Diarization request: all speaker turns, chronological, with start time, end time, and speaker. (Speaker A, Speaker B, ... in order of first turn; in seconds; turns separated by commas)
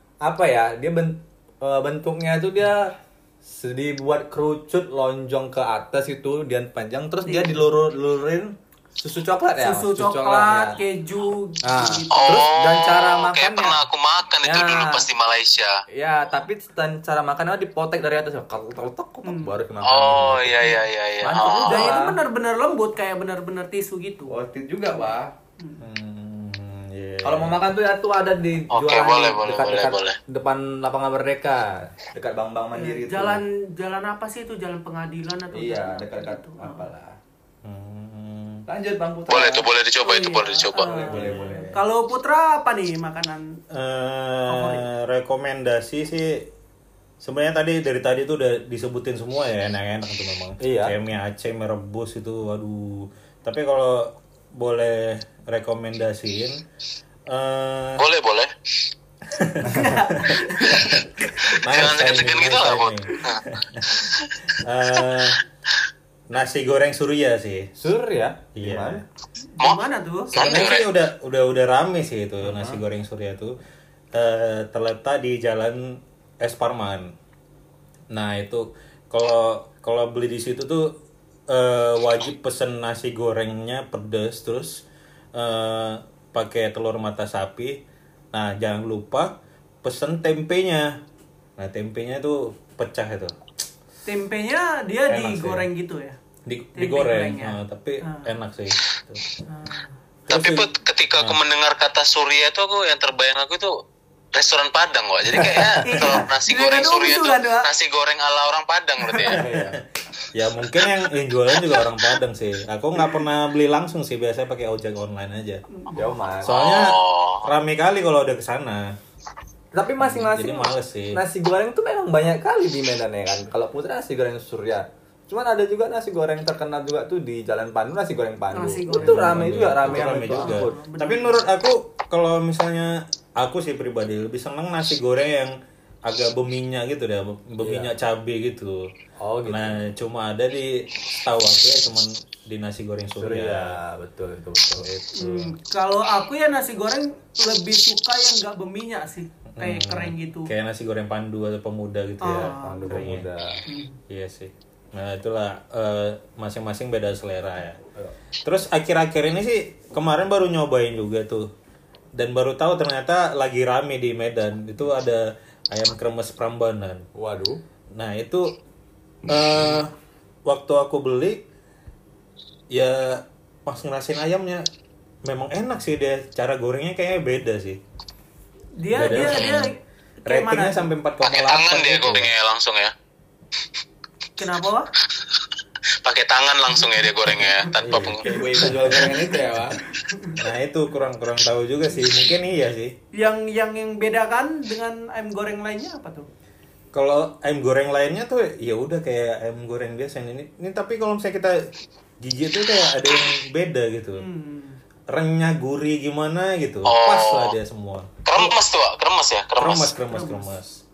Speaker A: 0.2-10.8, Speaker B: 7.2-7.6, Speaker B: 9.6-12.4, Speaker A: 11.6-13.8, Speaker C: 12.1-15.8, Speaker A: 14.4-15.1, Speaker A: 15.9-22.2, Speaker B: 19.2-19.6, Speaker C: 19.8-22.0, Speaker B: 21.6-24.3, Speaker A: 24.3-25.3, Speaker D: 25.8-27.6, Speaker A: 27.2-33.4, Speaker C: 28.7-30.2, Speaker B: 32.7-36.9, Speaker A: 35.5-37.2, Speaker D: 37.6-38.6, Speaker A: 38.7-39.7, Speaker C: 39.3-41.0, Speaker B: 40.0-43.6, Speaker A: 40.8-41.7, Speaker D: 41.1-41.8, Speaker D: 43.7-46.4, Speaker B: 44.5-44.9, Speaker D: 47.2-56.6, Speaker A: 50.6-50.9, Speaker D: 57.3-58.0, Speaker C: 58.0-58.5, Speaker D: 59.3-65.4, Speaker B: 59.6-61.0, Speaker C: 61.5-63.4, Speaker D: 66.3-67.7, Speaker A: 67.8-69.0, Speaker D: 68.5-69.0, Speaker B: 69.6-70.3, Speaker D: 70.3-73.6, Speaker C: 70.3-70.9, Speaker A: 72.4-72.8, Speaker D: 74.1-77.1, Speaker D: 78.1-80.9, Speaker D: 81.5-84.8, Speaker D: 85.3-87.8, Speaker D: 88.3-89.3, Speaker D: 89.8-90.9, Speaker D: 91.6-93.3, Speaker B: 94.0-96.2, Speaker D: 95.1-95.7, Speaker D: 96.5-99.2, Speaker B: 96.8-98.3, Speaker B: 99.5-99.9, Speaker D: 100.3-101.4, Speaker C: 100.3-103.7, Speaker C: 104.3-109.4, Speaker A: 105.3-106.2, Speaker B: 105.8-107.7, Speaker D: 109.2-109.8, Speaker A: 109.2-109.8, Speaker D: 110.3-115.6, Speaker B: 115.7-116.2, Speaker A: 115.9-116.5, Speaker D: 116.4-118.9, Speaker C: 116.4-117.5, Speaker A: 119.7-130.8, Speaker D: 120.0-121.2, Speaker B: 128.5-131.5, Speaker D: 128.9-135.5, Speaker D: 136.0-138.8, Speaker A: 137.6-137.9, Speaker A: 139.2-139.8, Speaker D: 139.5-143.8, Speaker A: 143.2-144.8, Speaker D: 144.8-145.5, Speaker B: 145.2-150.5, Speaker D: 149.5-153.3, Speaker B: 152.2-153.0, Speaker A: 152.4-153.6, Speaker B: 153.7-154.0, Speaker D: 154.1-157.8, Speaker D: 158.4-161.5, Speaker D: 162.2-167.1, Speaker A: 167.1-167.6, Speaker D: 167.9-168.6, Speaker D: 169.3-169.9, Speaker D: 170.4-171.4, Speaker D: 172.7-174.6, Speaker D: 175.2-177.8, Speaker B: 178.8-180.9, Speaker D: 178.9-179.7, Speaker D: 180.3-182.3, Speaker C: 181.2-182.9, Speaker B: 184.4-184.9, Speaker C: 186.0-188.3, Speaker B: 186.9-187.7, Speaker D: 187.8-189.1, Speaker A: 188.2-189.8, Speaker B: 188.3-189.1, Speaker B: 190.0-190.4, Speaker D: 190.4-192.9, Speaker B: 193.1-196.3, Speaker D: 196.9-201.6, Speaker D: 202.2-204.2, Speaker B: 204.2-204.8, Speaker D: 205.1-208.1, Speaker C: 206.8-207.5, Speaker C: 208.2-209.9, Speaker D: 209.6-210.8, Speaker B: 210.1-210.5